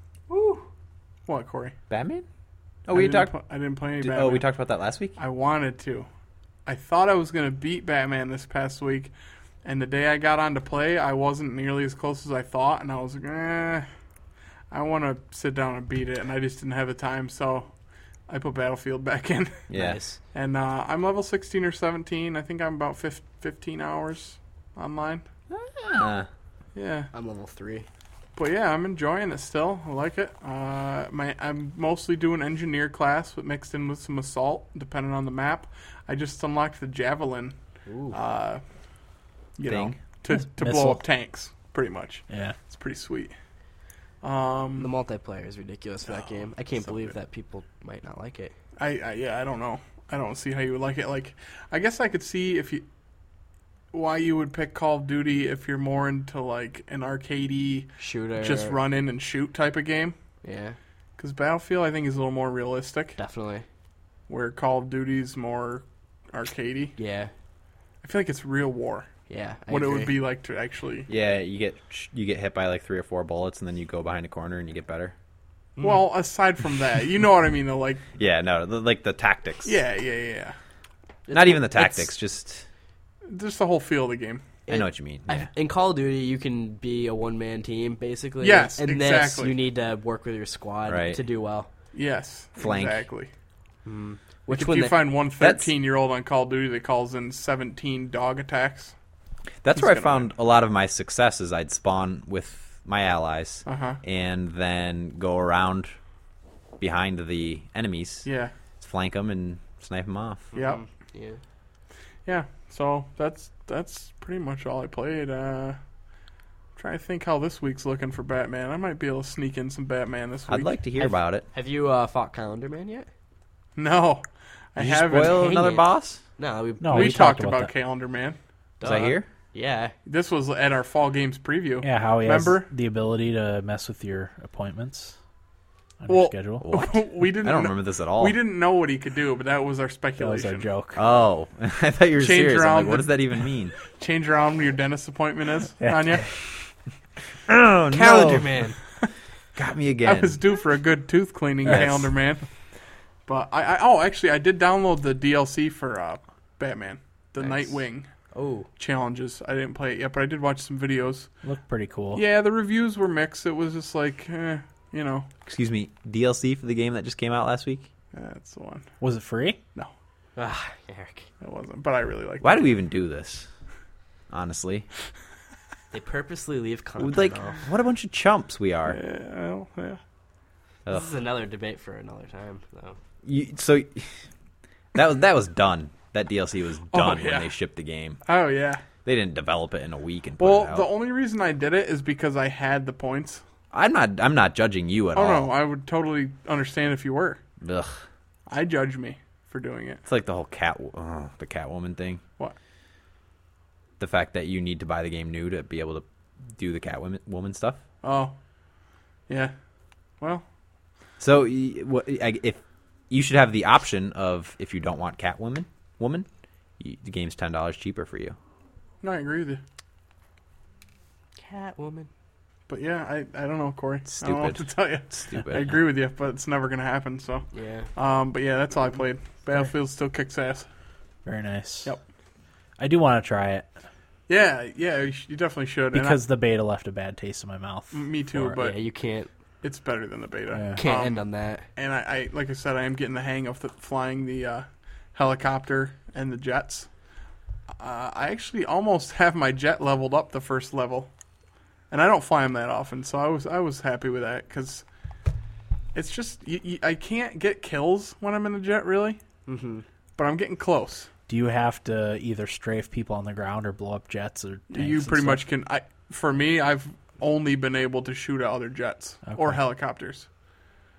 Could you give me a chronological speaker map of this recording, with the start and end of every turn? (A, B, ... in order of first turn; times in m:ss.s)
0:00.3-0:00.6 A
0:01.3-0:01.7 B
0:01.9-0:02.2 C
0:02.8-0:03.3 C
0:02.9-0:04.4 B
0:04.0-0:05.2 C
0:05.2-0:06.1 B
0:06.6-0:09.1 B
0:09.6-0:13.9 B
0:14.7-0:17.7 B
0:18.3-0:19.6 B
0:19.7-0:20.0 C
0:19.7-0:20.2 A
0:20.3-0:25.2 B
0:25.5-0:26.3 C
0:26.7-0:27.1 B
0:27.1-0:27.8 A
0:28.4-0:37.6 B
0:37.9-0:38.2 A
0:38.1-0:38.6 B
0:39.6-0:43.3 B
0:39.6-0:40.0 C
0:40.3-0:41.0 D
0:42.3-0:42.6 D
0:44.2-0:44.9 B
0:44.8-0:48.5 A
0:48.8-0:52.8 B
0:53.9-1:00.2 B
0:58.0-0:58.8 A
1:00.4-1:00.8 A
1:01.2-1:03.2 B
1:03.2-1:03.6 A
1:04.3-1:07.0 B
1:07.0-1:07.3 A
1:08.0-1:09.1 B
1:09.3-1:10.2 A
1:09.7-1:11.1 B
1:11.1-1:15.1 C
1:15.8-1:16.0 A
1:15.8-1:18.0 B
1:18.2-1:19.8 C
1:19.6-1:20.5 B
1:21.3-1:22.1 A
1:21.3-1:22.6 C
1:23.3-1:24.4 B
1:24.6-1:31.7 A
1:24.7-1:25.5 C
1:28.4-1:29.6 B
1:30.9-1:31.2 C
1:31.9-1:33.3 B
1:32.6-1:33.0 C
1:33.8-1:35.0 A
1:34.5-1:38.9 B
1:35.4-1:35.7 C
1:39.6-1:45.9 C
1:39.8-1:40.3 B
1:43.6-1:44.0 B
1:46.8-1:48.3 C
1:48.2-1:48.5 B
1:48.8-1:50.5 C
1:50.5-1:51.4 A
1:50.5-1:50.8 B
1:52.2-1:55.8 B
1:56.8-2:00.8 B
2:00.5-2:01.4 C
2:01.5-2:03.1 A
2:03.8-2:05.5 B
2:04.8-2:06.2 C
2:05.2-2:05.8 A
2:06.4-2:07.2 A
2:06.8-2:07.7 D
2:06.9-2:08.4 B
2:08.8-2:09.9 A
2:08.8-2:09.2 C
2:10.0-2:12.7 B
2:11.8-2:15.2 D
2:16.0-2:16.6 D
2:16.1-2:20.6 B
2:16.6-2:18.4 C
2:20.2-2:21.0 D
2:20.9-2:23.8 C
2:22.2-2:23.1 B
2:23.8-2:26.3 B
2:25.8-2:26.2 D
2:27.5-2:28.6 C
2:27.9-2:28.8 A
2:29.6-2:30.4 C
2:30.1-2:32.4 B
2:31.6-2:32.1 C
2:33.3-2:38.1 B
2:37.4-2:37.8 A
2:38.3-2:38.7 A
2:38.8-2:41.3 B
2:41.4-2:42.2 D
2:42.1-2:45.3 B
2:45.4-2:47.9 C
2:48.1-2:48.9 B
2:49.0-2:49.6 D
2:50.4-2:51.3 A
2:51.4-2:52.7 B
2:52.4-2:53.5 C
2:54.3-2:54.9 C
2:55.9-2:57.6 A
2:57.0-2:59.0 C
2:58.9-3:00.0 B
3:00.8-3:01.1 C
3:00.9-3:03.0 A
3:03.2-3:04.1 C
3:04.9-3:08.2 C
3:06.9-3:07.5 B
3:08.2-3:08.8 B
3:09.0-3:10.9 C
3:10.4-3:13.4 B
3:13.7-3:15.5 C
3:15.1-3:17.4 B
3:17.6-3:18.0 C
3:18.5-3:20.0 B
3:20.0-3:22.2 C
3:24.0-3:26.0 C
3:26.6-3:27.8 C
3:28.0-3:28.3 B
3:31.2-3:36.3 C
3:36.8-3:38.4 C
3:39.0-3:39.6 B
3:41.4-3:42.1 A
3:42.7-3:50.7 B
3:44.0-3:45.8 C
3:47.5-3:47.9 A
3:51.2-3:52.0 D
3:52.8-3:53.7 D
3:54.3-3:56.2 B
3:55.9-3:58.6 D
3:57.9-3:58.8 B
3:58.6-3:59.3 A
3:59.6-4:06.9 B
4:00.5-4:00.8 D
4:00.8-4:01.7 A
4:07.8-4:11.1 B
4:11.9-4:14.8 B
4:15.9-4:19.2 B
4:19.5-4:19.8 A
4:20.2-4:21.1 B
4:21.3-4:25.4 D
4:24.7-4:30.3 B
4:29.3-4:29.6 D